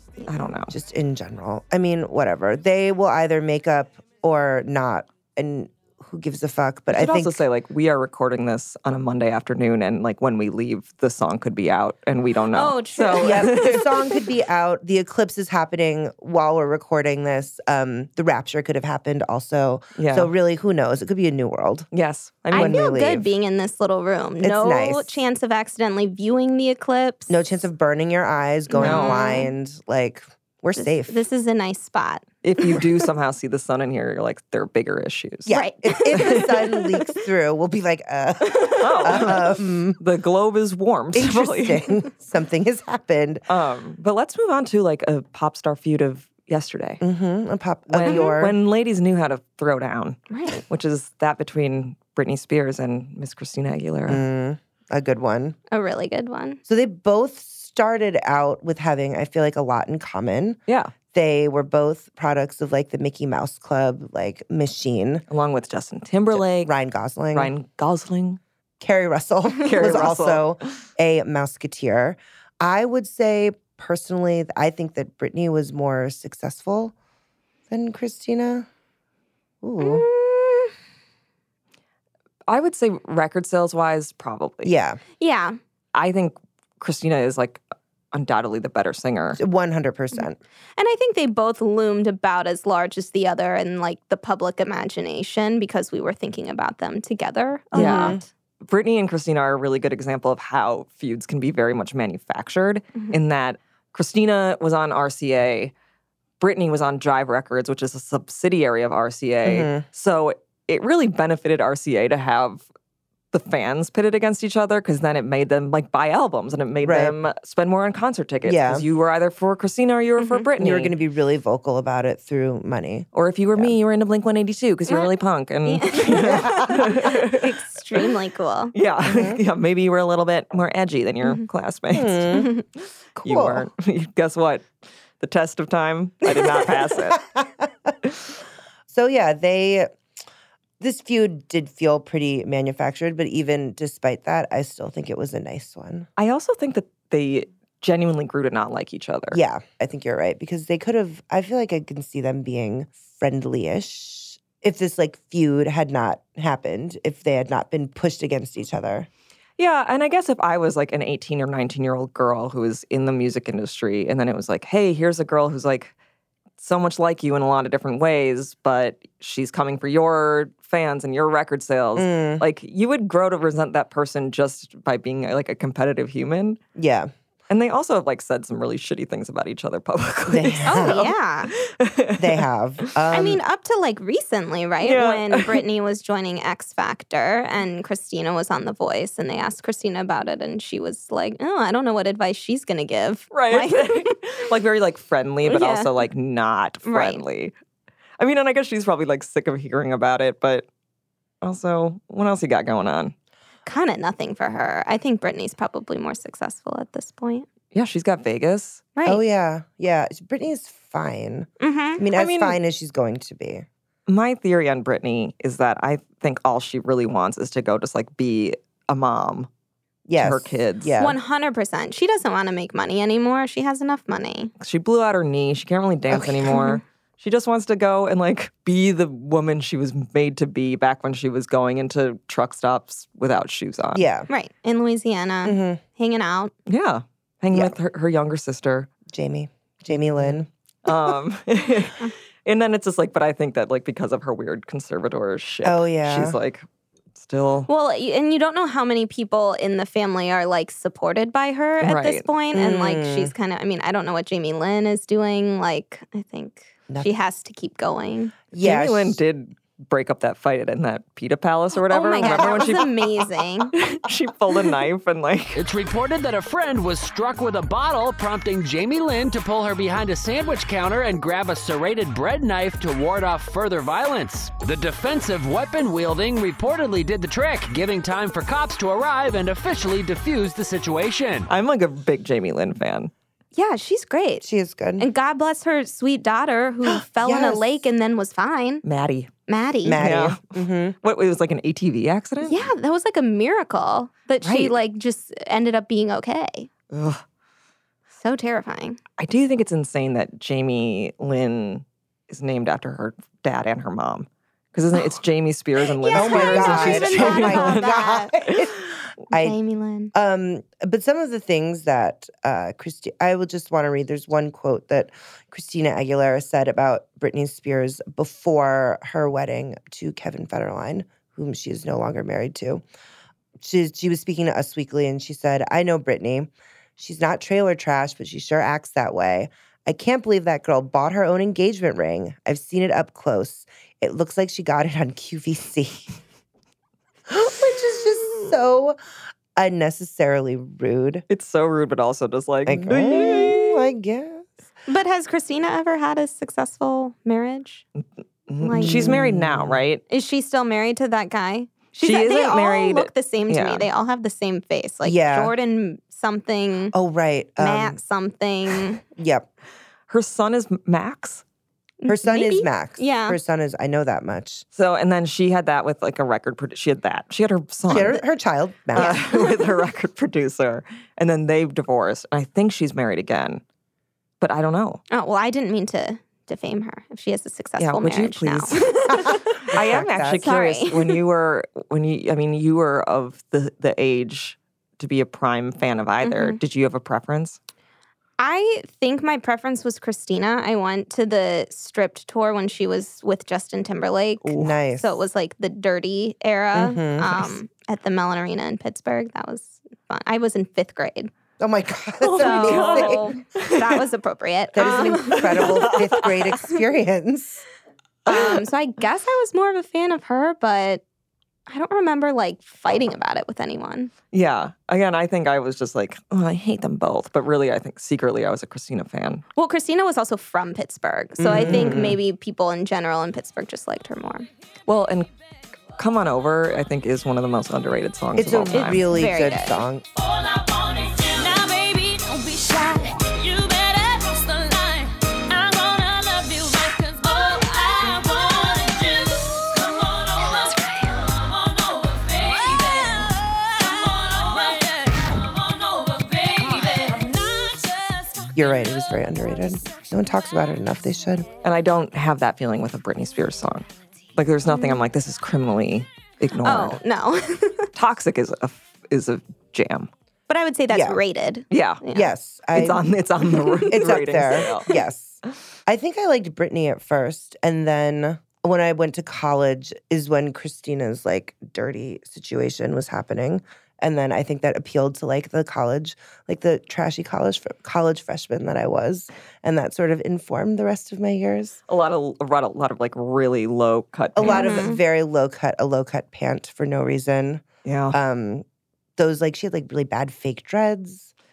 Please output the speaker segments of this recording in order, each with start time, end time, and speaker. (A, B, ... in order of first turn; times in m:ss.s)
0:00.3-0:00.7 A
0:00.7-0:07.4 B
0:06.9-0:13.9 A
0:12.5-0:13.8 C
0:13.2-0:21.9 B
0:20.0-0:20.3 A
0:21.9-0:22.8 A
0:22.5-0:27.3 C
0:22.5-0:23.3 B
0:24.4-0:25.2 B
0:27.3-0:31.2 B
0:28.7-0:29.5 C
0:28.8-0:29.2 A
0:30.8-0:32.8 C
0:32.4-0:35.6 A
0:35.5-0:40.0 B
0:35.5-0:37.1 C
0:36.1-0:36.5 A
0:38.8-0:41.9 A
0:41.1-0:43.4 B
0:43.5-0:47.0 A
0:47.0-0:48.6 B
0:47.9-0:54.2 A
0:48.0-0:48.3 C
0:50.3-0:50.6 C
0:54.1-0:55.6 B
0:55.7-0:56.6 C
0:56.6-1:00.6 B
1:00.7-1:00.9 A
1:01.1-1:05.2 B
1:05.3-1:06.7 A
1:06.3-1:07.5 B
1:07.3-1:08.4 A
1:08.8-1:16.9 B
1:09.6-1:10.5 A
1:17.7-1:18.7 B
1:19.6-1:20.0 B
1:19.8-1:20.7 C
1:22.5-1:24.7 A
1:24.6-1:25.0 B
1:25.2-1:25.6 C
1:25.9-1:27.6 A
1:28.1-1:29.4 A
1:29.4-1:30.4 B
1:30.8-1:38.2 C
1:37.7-1:38.2 B
1:37.7-1:45.7 A
1:46.4-1:52.6 A
1:49.4-1:49.8 B
1:53.3-2:00.9 A
1:56.8-1:57.2 B
1:58.4-1:58.8 B
2:00.2-2:00.4 C
2:00.6-2:03.7 B
2:03.1-2:08.0 A
2:05.6-2:08.7 C
2:06.2-2:06.7 B
2:08.7-2:12.5 A
2:09.0-2:09.4 B
2:11.9-2:12.5 B
2:12.3-2:12.6 C
2:13.2-2:17.2 A
2:13.2-2:13.7 B
2:17.2-2:17.7 B
2:18.9-2:19.9 B
2:20.8-2:26.1 B
2:26.2-2:29.4 A
2:29.3-2:39.1 B
2:39.6-2:45.9 A
2:46.6-2:56.6 A
2:52.0-2:52.4 B
2:56.7-2:57.1 B
2:57.5-3:02.9 A
3:00.3-3:01.1 B
3:00.6-3:01.5 C
3:02.2-3:03.4 B
3:03.1-3:14.1 C
3:04.8-3:05.6 A
3:13.3-3:17.5 A
3:15.4-3:16.0 C
3:16.8-3:17.2 C
3:18.2-3:20.7 A
3:21.4-3:23.1 A
3:23.6-3:27.4 C
3:27.7-3:28.8 A
3:28.9-3:29.2 C
3:29.0-3:33.6 B
3:31.6-3:32.0 C
3:32.1-3:32.6 A
3:34.1-3:39.5 A
3:40.0-3:41.2 B
3:40.2-3:40.9 A
3:41.0-3:44.5 C
3:44.6-3:54.1 A
3:46.1-3:46.6 B
3:53.9-3:54.3 B
3:54.3-3:56.5 C
3:55.4-3:55.8 B
3:56.7-3:58.9 A
3:59.1-4:00.5 B
4:00.2-4:07.7 A
4:05.6-4:06.4 B
4:07.7-4:18.4 C
4:11.8-4:12.3 A
4:12.5-4:13.3 B
4:18.5-4:19.2 B
4:18.5-4:23.2 A
4:21.8-4:23.7 C
4:22.2-4:22.7 B
4:23.7-4:25.6 A
4:25.6-4:41.5 D
4:41.5-4:43.1 A
4:43.5-4:44.4 C
4:44.4-4:45.1 B
4:45.0-4:48.8 C
4:46.8-4:47.9 B
4:48.8-4:49.3 A
4:49.5-4:50.0 C
4:49.8-4:51.0 B
4:50.0-4:50.5 A
4:51.0-4:52.7 A
4:52.4-4:56.7 C
4:54.4-4:54.7 B
4:56.9-4:57.2 A
4:58.1-4:59.0 C
4:59.2-5:08.0 A
5:06.0-5:08.3 C
5:06.1-5:09.6 B
5:09.3-5:10.1 C
5:10.1-5:22.8 B
5:23.6-5:36.1 B
5:37.3-5:39.0 B
5:39.6-5:41.2 B
5:41.3-5:43.9 A
5:42.6-5:44.5 B
5:44.9-5:47.8 C
5:48.0-5:50.0 A
5:48.6-5:49.2 C
5:48.7-5:49.8 B
5:50.1-5:56.9 C
5:52.0-5:53.9 A
5:55.0-5:55.5 B
5:56.9-5:58.0 B
5:57.6-5:59.0 C
5:59.2-5:59.5 B
6:00.1-6:01.4 A
6:02.0-6:03.4 C
6:02.1-6:04.6 B
6:04.7-6:08.2 A
6:07.9-6:09.2 B
6:08.9-6:13.6 A
6:09.0-6:09.6 C
6:14.4-6:15.0 A
6:15.1-6:19.4 C
6:17.8-6:27.6 A
6:19.7-6:20.4 B
6:20.4-6:21.2 C
6:26.2-6:26.6 C
6:28.4-6:41.3 C
6:34.4-6:34.7 A
6:34.6-6:35.2 B
6:36.7-6:37.6 B
6:41.6-6:43.3 B
6:42.2-6:44.0 A
6:42.4-6:46.2 C
6:44.7-6:47.6 B
6:44.8-6:46.3 A
6:48.2-6:51.0 C
6:51.7-6:54.1 C
6:54.3-6:59.4 A
6:59.6-7:04.5 C
7:01.4-7:02.2 B
7:01.6-7:02.1 A
7:04.9-7:05.3 A
7:06.0-7:09.0 A
7:08.4-7:10.0 B
7:08.7-7:09.7 C
7:10.1-7:28.7 E
7:28.5-7:31.5 B
7:31.6-7:37.0 A
7:34.7-7:35.0 C
7:36.6-7:37.9 C
7:37.9-7:40.1 A
7:40.5-7:42.3 C
7:40.9-7:41.2 B
7:41.7-7:42.0 A
7:42.1-7:43.1 B
7:42.7-7:44.9 A
7:43.8-8:01.8 B
8:01.9-8:04.9 A
8:04.4-8:08.6 B
8:04.4-8:05.0 C
8:07.8-8:08.2 A
8:09.2-8:11.3 B